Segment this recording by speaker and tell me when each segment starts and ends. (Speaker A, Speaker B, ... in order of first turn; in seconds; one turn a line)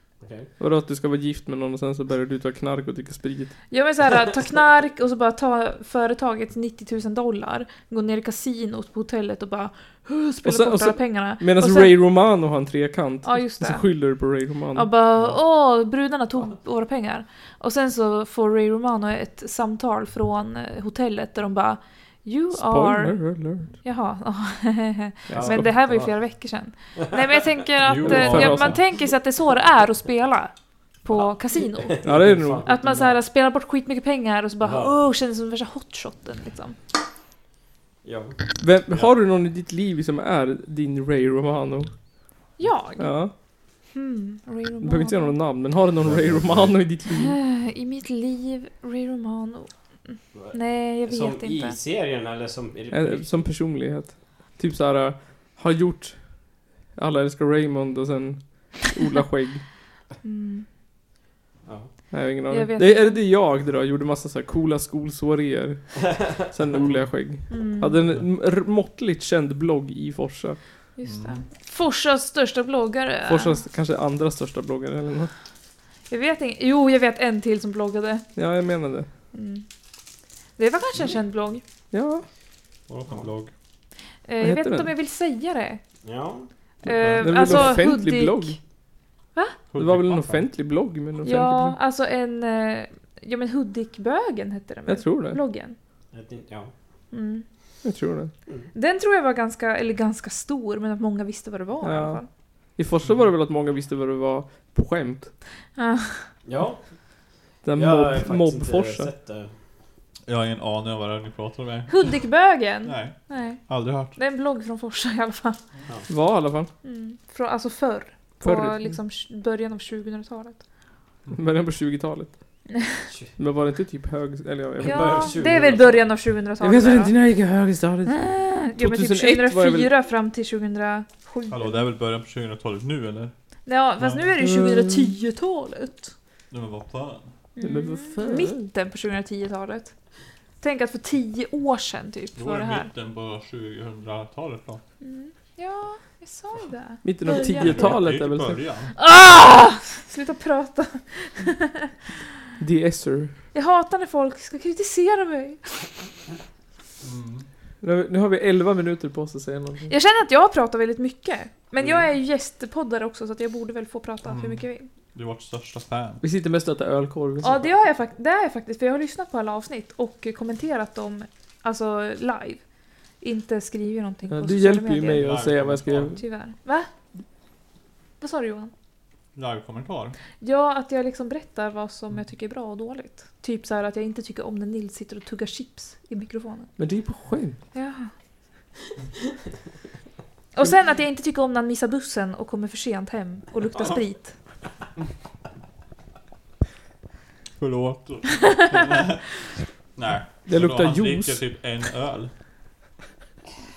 Speaker A: 0.2-0.5
Speaker B: 0.6-3.5
Speaker C: 3.7-11.9
Speaker B: 10.4-14.9
Speaker C: 13.2-13.9
Speaker C: 14.7-23.2
Speaker B: 22.5-23.7
Speaker C: 23.8-30.5
Speaker B: 25.3-25.7
Speaker A: 25.3-26.1
Speaker A: 27.0-27.4
Speaker D: 27.8-28.8
Speaker B: 28.0-28.8
Speaker C: 31.0-36.8
Speaker A: 31.1-33.2
Speaker B: 32.0-32.6
Speaker A: 34.6-34.9
Speaker A: 38.0-38.4
Speaker B: 38.6-41.9
Speaker C: 42.6-43.1
Speaker B: 43.0-43.3
Speaker C: 43.9-45.3
Speaker B: 44.8-47.4
Speaker A: 46.0-46.7
Speaker C: 47.1-51.8
Speaker A: 50.3-53.5
Speaker B: 52.9-56.3
Speaker B: 57.0-59.6
Speaker C: 60.2-60.6
Speaker B: 62.1-70.6
Speaker C: 62.5-63.2
Speaker C: 67.5-68.0
Speaker C: 71.0-73.6
Speaker D: 71.0-71.4
Speaker B: 73.3-75.3
Speaker C: 76.1-78.2
Speaker B: 78.3-79.1
Speaker C: 79.3-79.6
Speaker C: 80.6-81.6
Speaker B: 81.9-82.2
Speaker D: 82.9-83.5
Speaker C: 84.2-85.8
Speaker B: 84.4-84.9
Speaker A: 86.0-86.5
Speaker C: 86.8-88.6
Speaker D: 86.8-87.8
Speaker B: 87.2-88.6
Speaker D: 89.7-90.4
Speaker B: 89.8-91.8
Speaker C: 91.2-95.8
Speaker B: 94.9-95.4
Speaker A: 96.1-96.7
Speaker C: 97.1-97.4
Speaker B: 97.8-98.3
Speaker C: 98.7-102.3
Speaker B: 101.8-102.2
Speaker B: 102.8-105.3
Speaker C: 105.8-106.3
Speaker A: 106.5-106.8
Speaker B: 107.6-109.1
Speaker A: 107.7-109.5
Speaker D: 110.3-112.2
Speaker C: 111.9-113.6
Speaker D: 112.8-114.2
Speaker C: 114.2-115.6
Speaker B: 116.1-116.7
Speaker C: 116.8-120.6
Speaker B: 118.4-118.9
Speaker B: 121.3-122.3
Speaker B: 123.4-125.3
Speaker A: 124.8-126.1
Speaker C: 124.8-127.1
Speaker B: 126.6-129.9
Speaker C: 128.1-131.8
Speaker D: 131.5-133.3
Speaker C: 133.7-136.1
Speaker D: 134.0-134.3
Speaker B: 134.4-135.2
Speaker D: 136.5-137.3
Speaker C: 137.6-139.9
Speaker B: 137.6-138.6
Speaker C: 140.6-142.9
Speaker D: 142.4-144.8
Speaker C: 145.0-147.9
Speaker B: 147.0-148.6
Speaker D: 147.6-148.9
Speaker C: 149.0-152.0
Speaker B: 152.6-153.3
Speaker C: 153.5-155.8
Speaker D: 157.0-157.5
Speaker B: 157.8-159.9
Speaker C: 159.9-164.9
Speaker D: 164.2-166.2
Speaker B: 166.2-167.6
Speaker C: 167.4-172.6
Speaker C: 173.2-175.3
Speaker B: 174.3-176.2
Speaker D: 175.1-176.2
Speaker C: 176.1-176.9
Speaker C: 178.2-178.7
Speaker D: 179.3-180.2
Speaker C: 180.4-186.7
Speaker B: 186.8-187.6
Speaker C: 187.7-188.1
Speaker C: 190.5-194.3
Speaker D: 197.6-202.3
Speaker B: 200.5-201.4